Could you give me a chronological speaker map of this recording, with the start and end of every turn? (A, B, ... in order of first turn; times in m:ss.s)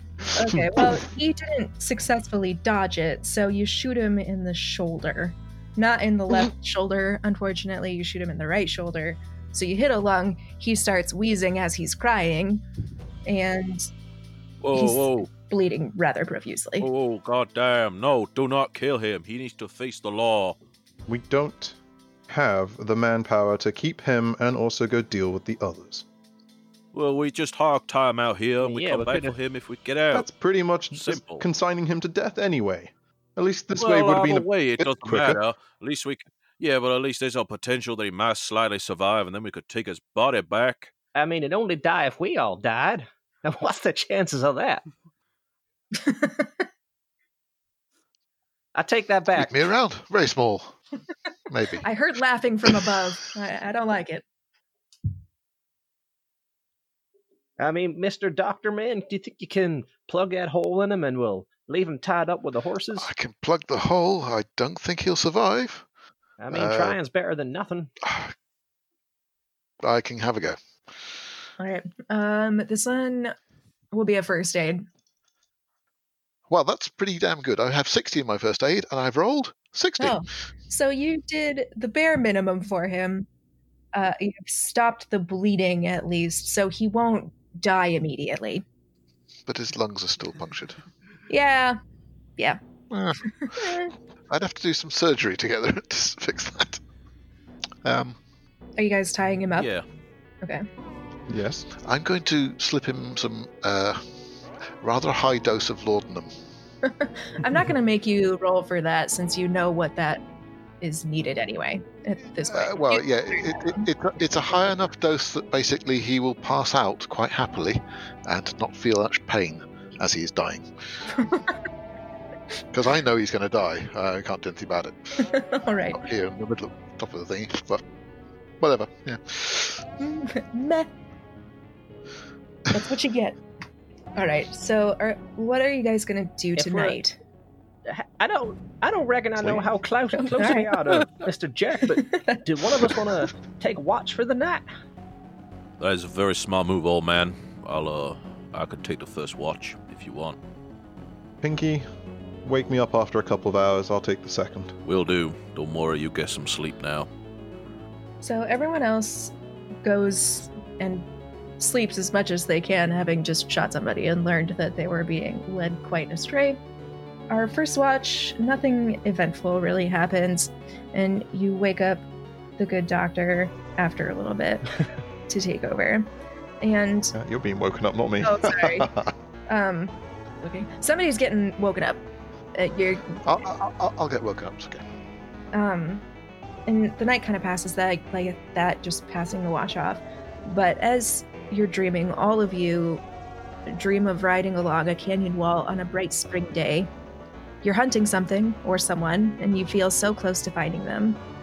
0:00.3-0:12.6 A
0:00.5-0:01.0 B
0:13.2-0:13.9 A
0:14.6-0:15.3 C
0:14.7-0:16.9 A
0:16.8-0:20.6 C
0:21.1-0:21.8 B
0:22.3-0:26.0 B
0:26.9-0:30.3 C
0:28.6-0:29.3 D
0:30.1-0:35.4 B
0:30.9-0:31.4 C
0:33.8-0:40.9 C
0:41.1-0:44.8 D
0:46.0-0:46.5 A
0:48.7-0:49.6 D
0:49.3-0:50.8 E
0:51.5-0:51.8 E
0:51.8-0:54.2 A
0:52.7-0:53.0 E
0:57.6-1:03.1 D
1:02.9-1:05.8 E
1:06.4-1:07.9 D
1:06.5-1:07.0 E
1:08.0-1:08.3 E
1:09.8-1:10.6 E
1:11.6-1:13.3 A
1:13.9-1:14.8 A
1:16.5-1:20.2 E
1:20.0-1:23.3 A
1:23.9-1:28.6 A
1:29.5-1:30.8 E
1:31.3-1:31.8 A
1:32.9-1:36.8 E
1:33.4-1:33.9 A
1:37.8-1:38.2 E
1:38.8-1:39.7 A
1:39.6-1:39.8 C
1:41.3-1:41.7 B
1:41.8-1:44.0 E
1:44.8-1:46.3 E
1:46.8-1:50.2 A
1:50.8-1:53.9 A
1:52.4-2:00.7 E
2:01.1-2:01.6 A
2:02.7-2:05.1 E
2:05.2-2:06.1 A
2:05.9-2:07.8 E
2:08.6-2:09.8 E
2:10.0-2:10.9 A
2:12.7-2:13.4 A
2:14.2-2:17.2 A
2:16.6-2:17.0 D
2:17.9-2:24.6 D
2:20.2-2:21.1 A
2:21.9-2:23.0 A
2:25.8-2:30.4 C
2:31.4-2:31.8 B
2:32.4-2:34.7 B
2:34.8-2:37.1 C
2:38.2-2:41.0 A
2:41.6-2:46.6 A
2:47.3-2:52.1 A
2:52.6-2:56.1 A
2:56.6-2:57.1 A
2:57.1-2:59.1 B
2:58.2-2:58.9 A
2:59.5-3:02.0 A
3:02.5-3:03.2 A
3:03.2-3:04.8 E
3:05.5-3:06.0 A
3:06.7-3:13.0 A
3:13.7-3:16.9 A
3:17.6-3:21.2 A